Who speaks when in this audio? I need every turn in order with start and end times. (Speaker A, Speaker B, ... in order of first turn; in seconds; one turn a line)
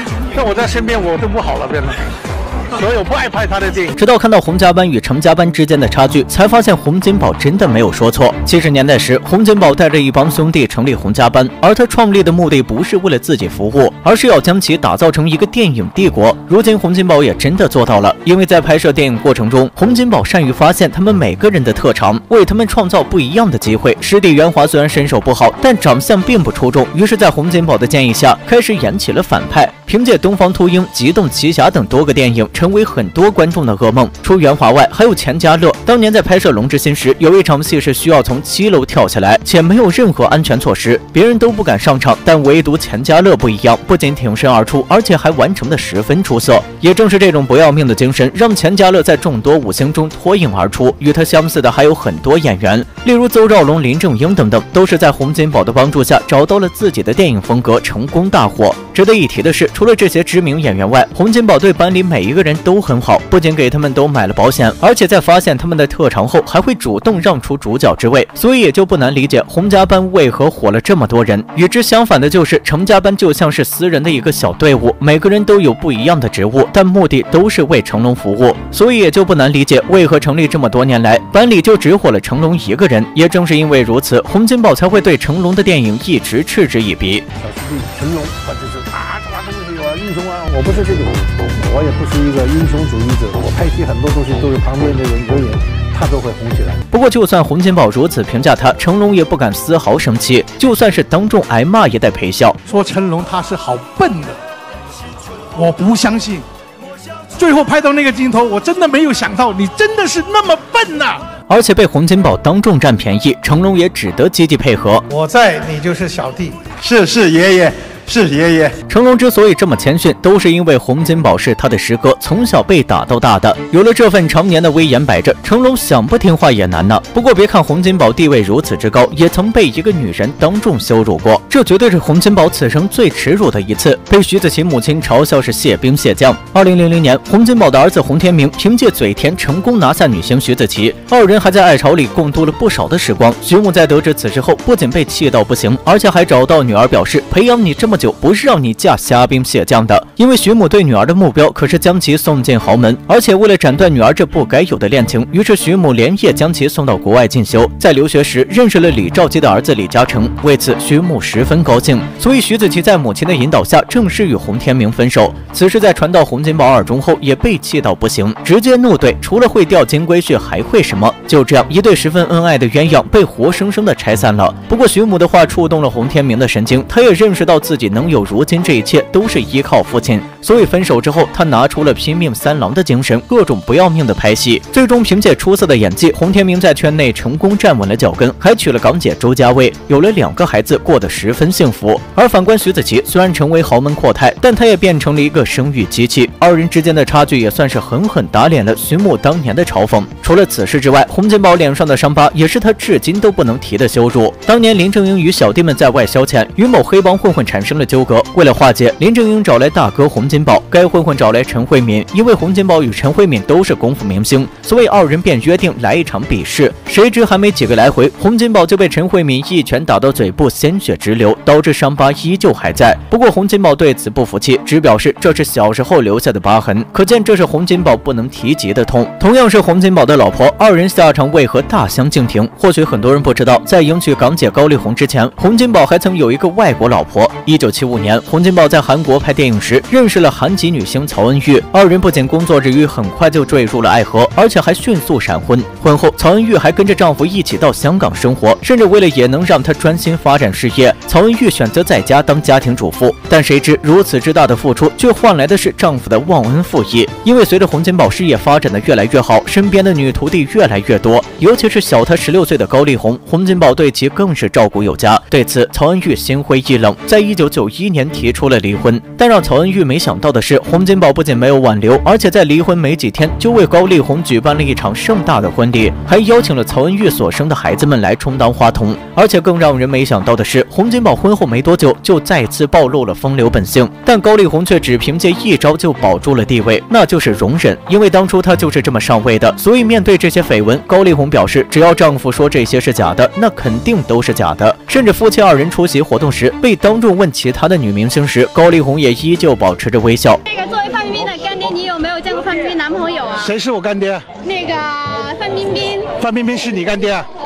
Speaker A: 0.3-2.0
Speaker A: 2.7-4.0
Speaker B: 4.0-87.3
Speaker A: 87.4-96.8
Speaker B: 96.9-102.6
Speaker A: 102.7-104.3
Speaker A: 105.6-106.4
Speaker A: 107.4-111.1
Speaker C: 110.4-110.8
Speaker B: 111.5-115.1
Speaker A: 115.1-116.7
Speaker C: 116.8-118.7
Speaker B: 118.9-300.4
Speaker D: 300.5-303.5
Speaker A: 303.4-304.3
Speaker D: 304.4-306.1
Speaker A: 306.1-307.3